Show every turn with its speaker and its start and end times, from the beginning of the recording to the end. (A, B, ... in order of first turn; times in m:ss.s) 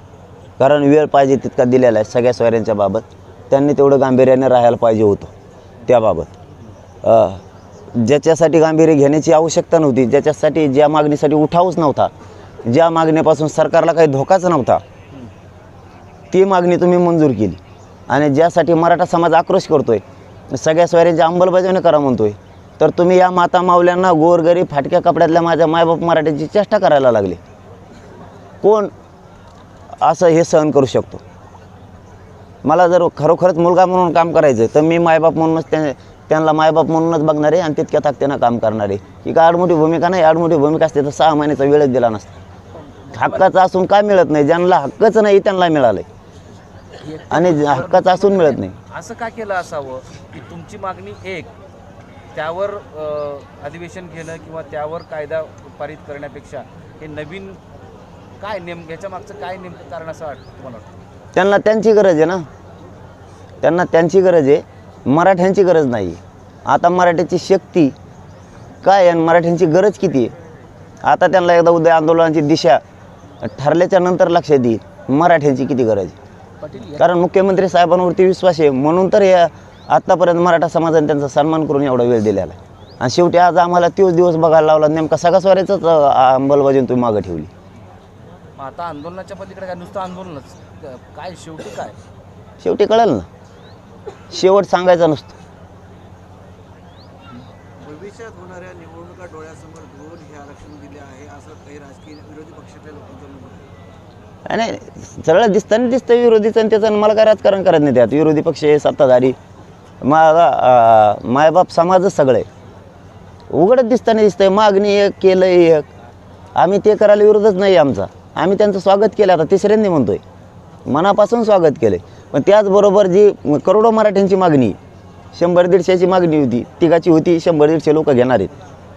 0:00.6-0:05.3 A
0:05.8-0:06.3 A
0:07.0-0:07.4 A
0:07.9-0:12.1 A
0:12.6-0:14.8 A
0:16.3-0:27.4 A
0:28.6-0:28.9 A
0:30.0-0:31.2 A
0:32.6-0:42.3 A
0:43.1-0:43.4 B
0:43.1-0:46.0 A
0:47.0-0:51.5 B
0:47.3-0:48.8 A
0:52.3-0:57.6 B
0:58.4-1:01.0 B
1:01.3-1:02.5 A
1:03.6-1:07.9 A
1:08.8-1:10.3 A
1:11.0-1:12.8 A
1:13.4-1:16.2 A
1:16.6-1:17.1 B
1:17.0-1:27.5 A
1:28.6-1:32.0 B
1:32.6-1:33.3 A
1:34.3-1:35.3 A
1:37.8-1:43.7 C
1:44.5-1:49.4 A
1:50.0-1:52.4 A
1:53.5-1:55.9 A
1:56.5-2:00.2 A
2:00.8-2:04.8 A
2:05.3-2:08.5 A